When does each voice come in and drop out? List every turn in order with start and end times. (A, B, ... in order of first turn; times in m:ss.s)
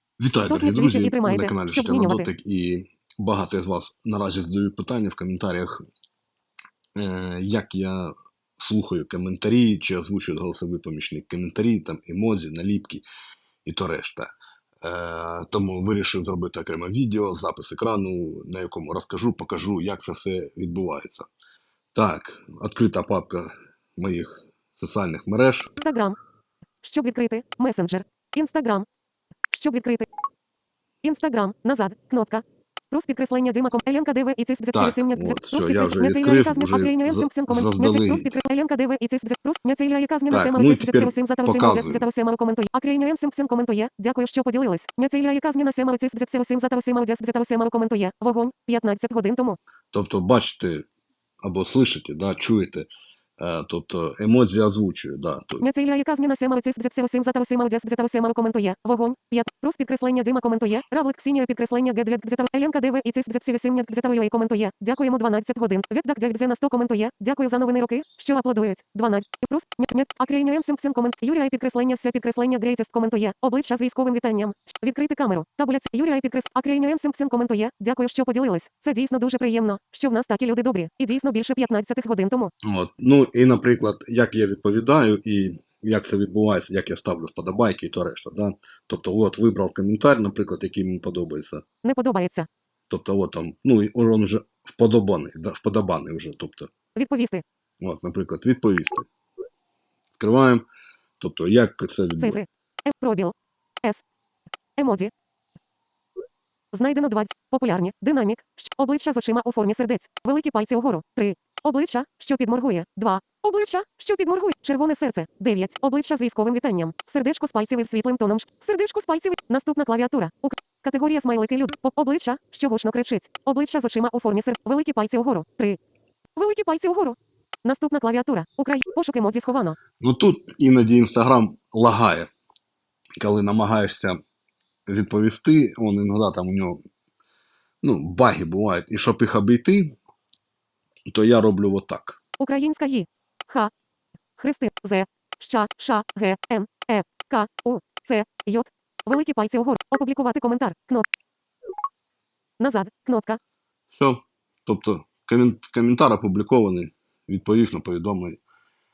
0:00.2-0:05.8 A
0:00.5-0:02.3 B
0:07.0-0:13.0 A
0:13.6-0:14.3 A
0:14.8-0:21.3 A
0:21.9-0:25.7 A
0:25.8-0:26.2 B
0:26.8-0:28.9 B
0:29.5-0:30.1 B
0:31.0-0:49.6 B
0:34.7-0:38.4 A
0:40.3-0:42.1 A
0:49.9-0:50.8 A
0:51.4-0:55.6 A
0:55.6-1:22.5 B
1:22.6-1:31.6 A
1:31.8-1:32.5 B
1:32.9-1:36.7 A
1:37.0-1:37.4 B
1:37.8-1:39.1 A
1:40.2-1:40.6 A
1:41.2-1:42.4 A
1:42.2-1:44.0 B
1:44.8-1:45.1 B
1:46.7-2:05.8 B
2:06.4-2:09.8 B
2:10.0-2:12.3 A
2:13.2-2:14.2 A
2:14.9-2:16.8 A
2:17.8-2:20.0 A
2:21.1-2:22.2 A
2:22.4-2:23.7 B
2:24.4-2:31.1 B
2:32.6-2:33.4 B
2:33.9-2:38.4 A